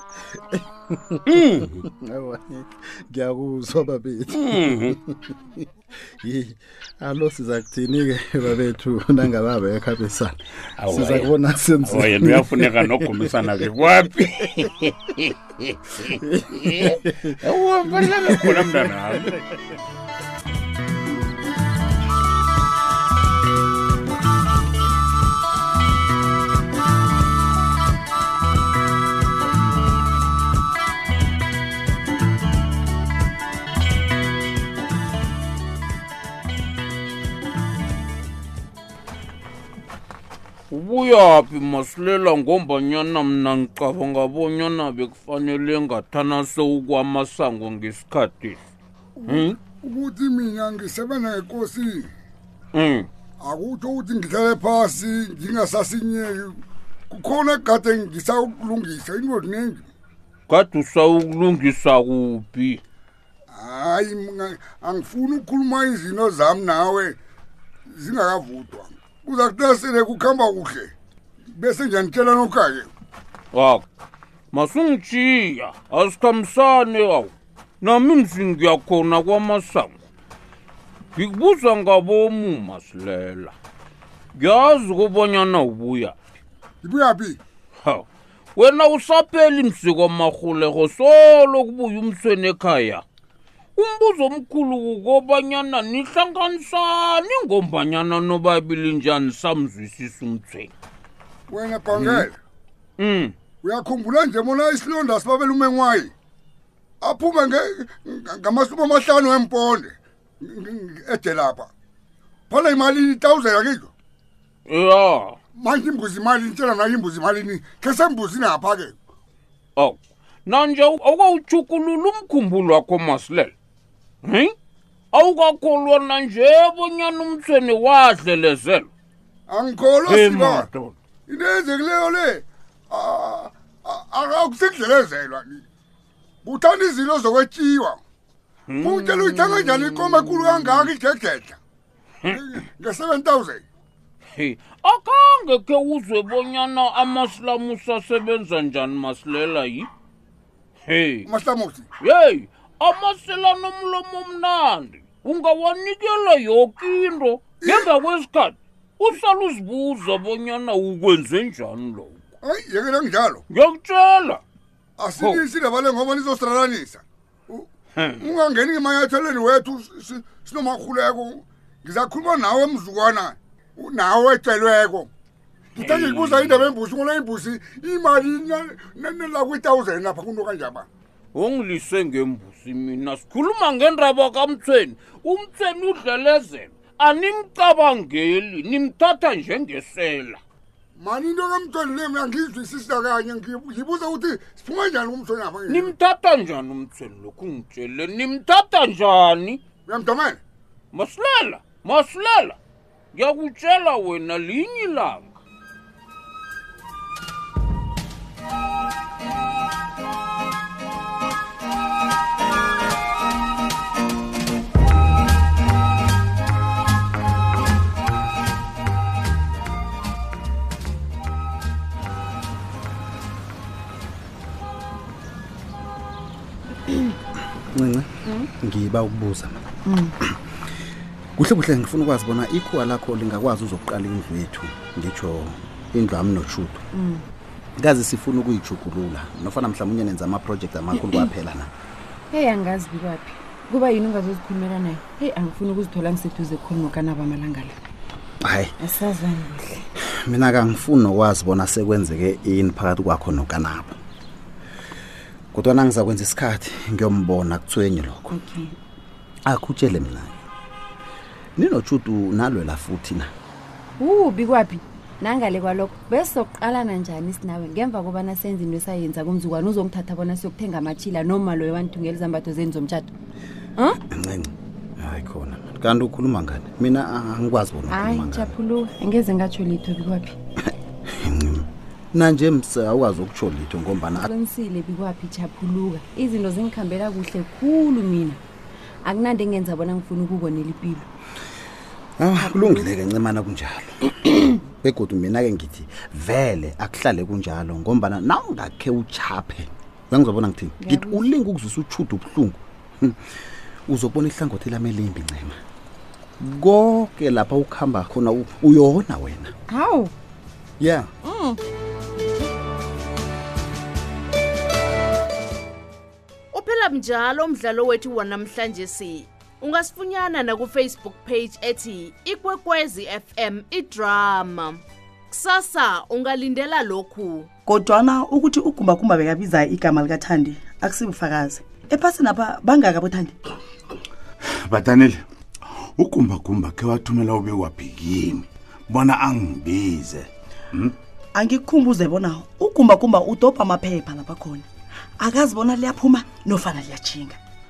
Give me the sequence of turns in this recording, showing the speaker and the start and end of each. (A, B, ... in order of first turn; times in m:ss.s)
0:00.5-0:05.4 A
0:01.3-0:01.8 B
0:04.3-0:05.0 B
0:06.2-0:13.6 A
0:10.8-0:19.3 B
0:16.1-0:19.2 A
0:40.7-0:48.6 C
0:49.3-0:49.6 C
0:49.8-0:52.1 D
0:52.7-0:53.1 C
0:53.4-0:56.4 D
0:57.1-0:59.8 D
1:00.5-1:02.8 C
1:03.6-1:07.1 D
1:08.0-1:10.9 D
1:11.6-1:12.8 D
1:13.5-1:13.8 C
1:14.5-1:20.0 C
1:21.2-1:23.6 C
1:24.4-1:26.2 C
1:26.8-1:27.4 D
1:27.8-1:33.0 C
1:33.8-1:40.7 C
1:41.5-1:42.2 D
1:41.9-1:42.3 C
1:43.0-1:43.3 C
1:43.6-1:46.1 D
1:47.0-1:49.9 D
1:50.5-1:51.7 D
1:52.5-1:53.9 D
1:54.7-1:55.4 C
1:55.6-1:58.9 D
1:59.8-2:03.5 C
2:04.2-2:04.5 C
2:05.1-2:08.9 C
2:09.5-2:10.6 D
2:10.0-2:10.9 C
2:11.3-2:12.4 D
2:12.9-2:15.5 D
2:16.4-2:18.0 D
2:18.7-2:20.9 C
2:19.1-2:21.6 D
2:22.8-2:23.6 D
2:24.4-2:29.9 C
2:30.9-2:31.3 C
2:31.3-2:31.8 D
2:32.0-2:42.2 C
2:42.5-2:43.4 D
2:43.5-2:44.4 C
2:45.0-2:47.0 D
2:45.2-2:45.4 C
2:48.0-2:48.3 C
2:48.4-2:55.1 D
2:55.8-2:56.7 C
2:56.0-3:00.8 D
3:01.3-3:10.4 C
3:11.0-3:15.8 D
3:15.7-3:19.6 C
3:19.9-3:20.4 D
3:20.9-3:22.6 C
3:23.1-3:25.4 C
3:47.7-3:49.6 A
3:51.4-3:56.9 A
3:57.8-4:01.7 A
4:01.0-4:01.3 E
4:02.3-4:07.8 E
4:08.4-4:08.7 A
4:08.8-4:09.9 E
4:10.1-4:14.0 A
4:15.5-4:18.4 A
4:18.4-4:18.7 E
4:19.5-4:20.4 A
4:21.6-4:23.3 A
4:24.0-4:33.1 E
4:34.1-4:38.6 A
4:37.9-4:40.4 E
4:41.1-4:44.3 A
4:44.1-4:48.4 E
4:49.0-4:51.1 E
4:52.2-5:03.2 A
4:52.4-4:52.9 E
5:00.8-5:01.2 E
5:03.9-5:05.6 A
5:06.4-5:09.5 A
5:09.7-5:10.1 E
5:10.8-5:11.1 A
5:11.3-5:11.5 E
5:16.5-5:27.5 F
5:34.7-5:35.2 G
5:36.0-5:41.0 G
5:43.9-5:44.5 H
5:46.0-5:47.3 H